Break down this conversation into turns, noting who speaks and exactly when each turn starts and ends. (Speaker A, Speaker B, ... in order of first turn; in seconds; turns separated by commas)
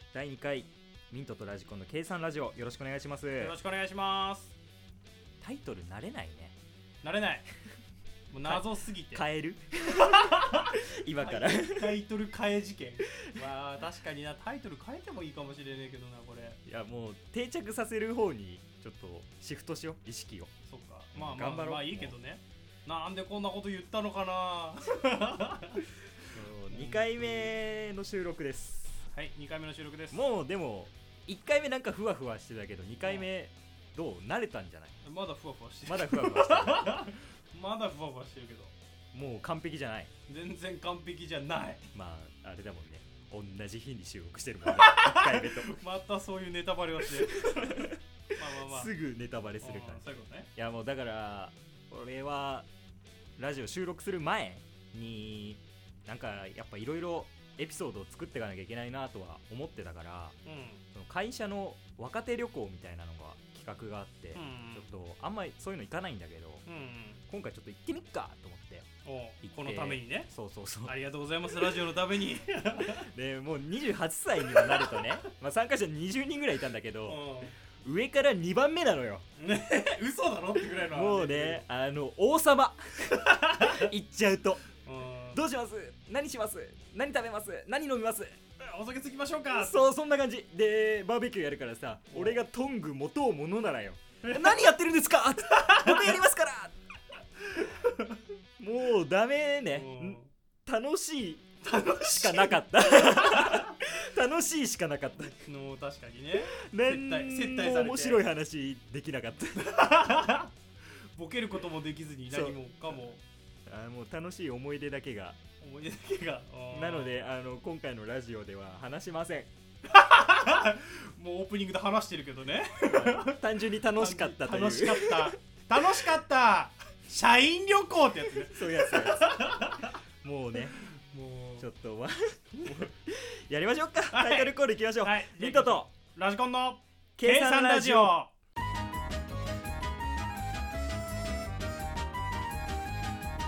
Speaker A: 0.1-3.5, Speaker B: 3.4-4.5, Speaker A: 5.4-6.5, Speaker B: 7.0-7.5, Speaker B: 8.3-9.2, Speaker A: 8.4-12.0, Speaker B: 9.9-16.6, Speaker A: 13.1-13.4, Speaker A: 16.7-20.5, Speaker B: 20.7-25.9, Speaker A: 21.1-22.2, Speaker A: 26.3-29.0, Speaker B: 26.7-27.5, Speaker B: 29.1-30.2, Speaker A: 30.1-35.0, Speaker B: 35.0-38.7, Speaker A: 35.9-37.0, Speaker A: 39.1-40.1, Speaker B: 40.3-41.9, Speaker A: 41.9-45.8, Speaker B: 44.6-48.9, Speaker A: 47.3-48.0, Speaker A: 48.5-50.0, Speaker B: 49.6-50.5, Speaker A: 50.5-52.7, Speaker A: 53.4-60.4, Speaker B: 60.5-60.8, Speaker A: 60.9-66.7, Speaker B: 64.3-64.9, Speaker B: 66.7-67.2, Speaker A: 67.3-68.9, Speaker B: 69.0-70.3, Speaker A: 69.4-71.0, Speaker B: 70.8-73.1, Speaker A: 72.9-79.2, Speaker B: 74.5-75.2, Speaker B: 77.1-77.5, Speaker B: 79.4-81.6, Speaker A: 80.9-84.7, Speaker B: 83.2-83.9, Speaker B: 84.8-85.4, Speaker A: 85.3-88.4, Speaker B: 88.6-89.8, Speaker A: 89.5-96.7, Speaker B: 92.1-92.4, Speaker B: 94.2-94.6, Speaker B: 95.5-96.2, Speaker B: 97.5-98.2, Speaker A: 98.6-101.5, Speaker B: 99.7-100.3, Speaker B: 101.6-103.8, Speaker A: 102.0-105.4, Speaker B: 105.4-108.2, Speaker A: 106.5-109.8, Speaker B: 109.6-110.5, Speaker B: 111.1-113.2, Speaker A: 112.3-112.6, Speaker A: 113.7-115.4, Speaker B: 115.6-117.2, Speaker A: 116.7-119.5, Speaker B: 119.9-123.4, Speaker A: 122.9-125.3, Speaker B: 124.0-130.0, Speaker A: 128.4-130.8, Speaker B: 130.8-131.7, Speaker A: 131.6-135.9, Speaker B: 134.1-138.3, Speaker A: 137.2-138.2